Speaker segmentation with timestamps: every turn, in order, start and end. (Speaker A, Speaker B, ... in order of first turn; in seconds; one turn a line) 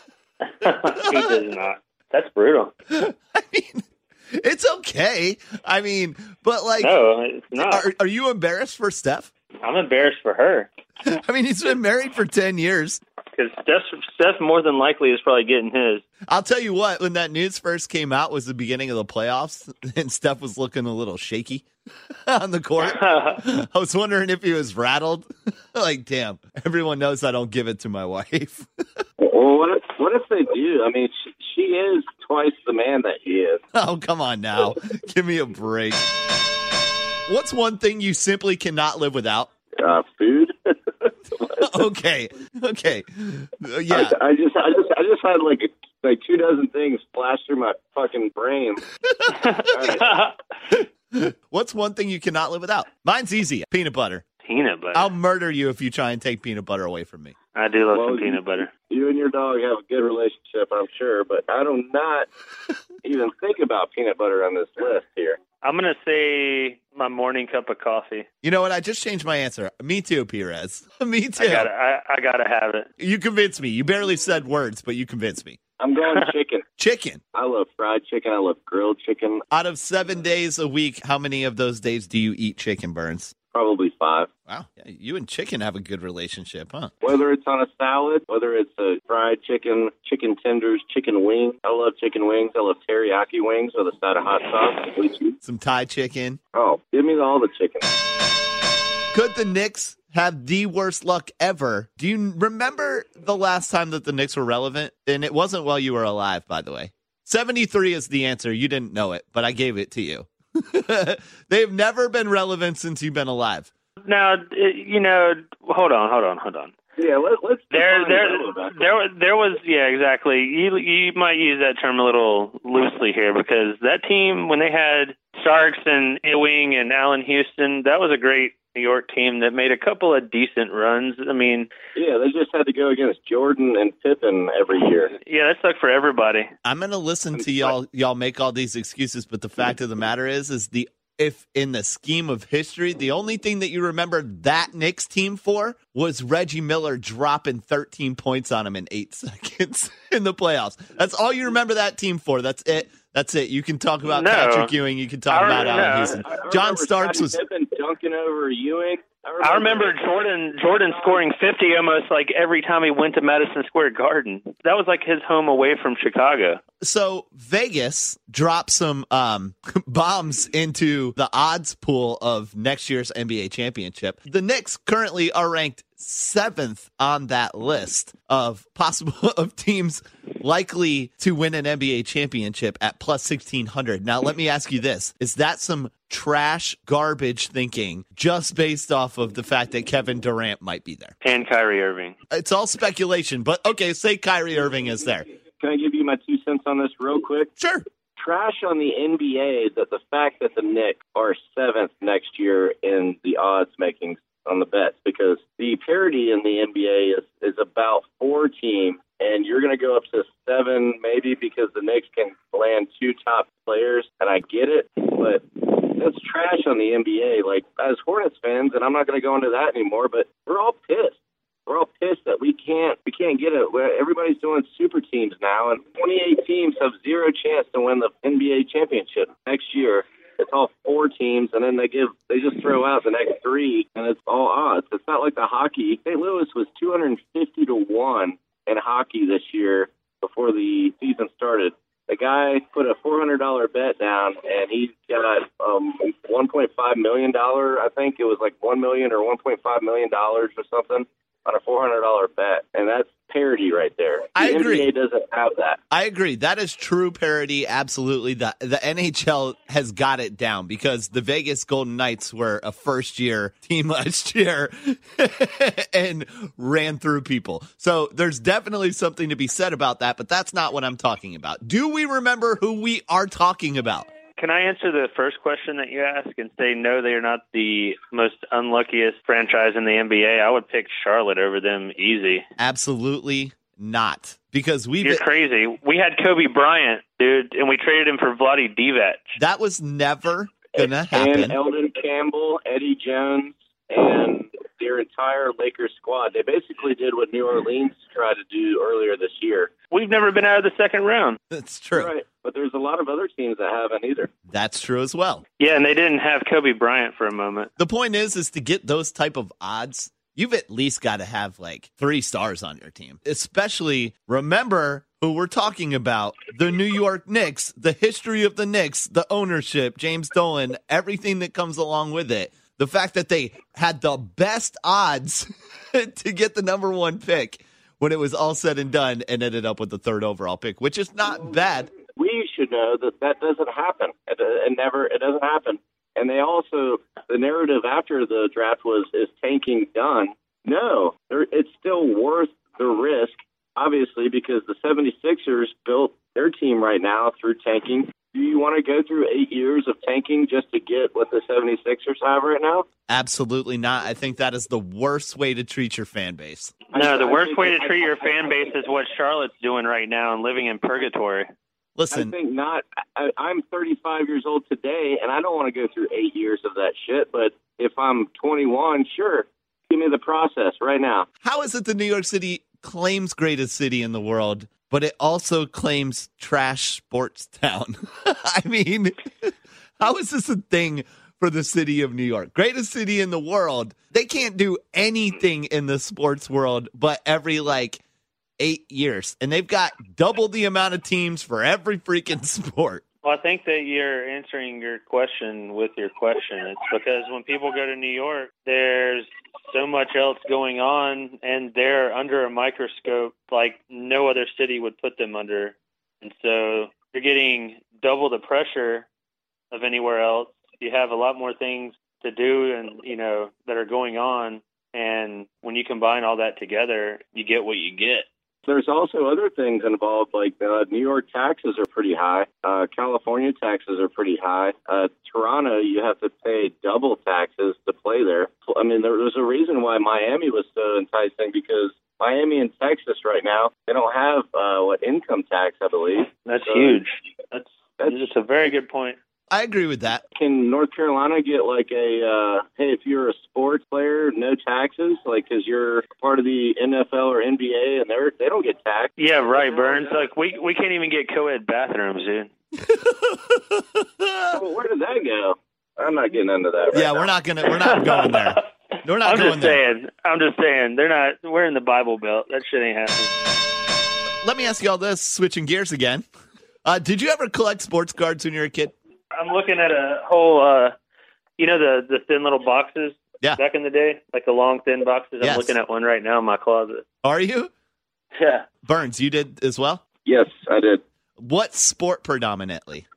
Speaker A: 0.6-2.7
Speaker B: 0.9-1.3
Speaker B: 2.9-7.0
Speaker A: 6.8-7.9
Speaker B: 7.5-9.3
Speaker A: 9.6-10.7
Speaker B: 11.1-13.0
Speaker A: 13.3-16.0
Speaker B: 16.3-21.7
Speaker B: 22.3-28.7
Speaker A: 22.8-23.4
Speaker C: 29.2-33.6
Speaker B: 33.8-36.0
Speaker B: 37.3-39.5
Speaker C: 39.8-40.5
Speaker B: 41.6-44.2
Speaker C: 43.9-48.8
Speaker B: 49.0-49.4
Speaker A: 49.3-50.4
Speaker C: 49.7-50.1
Speaker B: 50.7-54.2
Speaker A: 54.4-55.1
Speaker B: 54.9-57.4
Speaker A: 57.5-58.7
Speaker C: 57.9-62.3
Speaker C: 63.0-65.4
Speaker A: 65.6-68.3
Speaker B: 68.4-71.7
Speaker A: 71.4-72.9
Speaker B: 73.0-75.6
Speaker C: 75.8-76.7
Speaker B: 76.8-77.2
Speaker C: 77.3-79.4
Speaker B: 79.5-83.3
Speaker C: 83.5-84.3
Speaker B: 84.5-86.9
Speaker C: 87.0-95.3
Speaker B: 95.4-96.4
Speaker C: 96.5-97.8
Speaker B: 99.1-113.7
Speaker A: 114.0-116.7
Speaker C: 117.0-118.8
Speaker A: 117.7-131.7
Speaker C: 131.9-135.1
Speaker A: 135.2-136.5
Speaker B: 136.6-157.4
Speaker C: 137.4-137.7
Speaker A: 154.0-154.7
Speaker A: 155.3-156.2
Speaker C: 155.4-160.2
Speaker A: 159.4-166.6
Speaker C: 160.9-161.2
Speaker B: 166.8-191.2
Speaker A: 191.2-192.2
Speaker B: 192.3-195.3
Speaker C: 195.6-197.5
Speaker B: 197.6-197.8
Speaker C: 198.2-255.8
Speaker B: 254.4-254.9
Speaker B: 255.9-274.1
Speaker A: 274.4-282.4
Speaker B: 282.6-285.2
Speaker A: 285.0-289.4
Speaker B: 289.4-291.6
Speaker C: 290.8-299.7
Speaker A: 299.9-301.4
Speaker B: 301.5-302.1
Speaker C: 301.9-304.3
Speaker B: 304.5-305.4
Speaker A: 305.6-307.7
Speaker B: 307.8-331.9
Speaker C: 332.2-352.9
Speaker B: 353.1-356.8
Speaker A: 356.9-361.5
Speaker C: 356.9-358.7
Speaker B: 362.0-362.3
Speaker C: 362.1-371.3
Speaker B: 371.4-388.0
Speaker B: 388.6-393.0
Speaker A: 393.2-409.1
Speaker A: 409.7-418.3
Speaker C: 418.7-437.0
Speaker A: 436.4-439.2
Speaker C: 438.0-438.3
Speaker B: 439.5-440.2
Speaker C: 440.4-450.2
Speaker A: 449.2-452.5
Speaker B: 452.8-454.6
Speaker C: 454.5-457.3
Speaker B: 456.9-459.8
Speaker A: 457.7-458.6
Speaker A: 459.2-463.3
Speaker B: 464.4-466.3
Speaker B: 466.9-468.9
Speaker A: 469.3-470.9
Speaker A: 471.6-477.0
Speaker B: 475.4-475.8
Speaker B: 477.2-477.7
Speaker A: 478.4-478.7
Speaker B: 478.9-480.0
Speaker C: 480.3-481.0
Speaker B: 481.4-483.0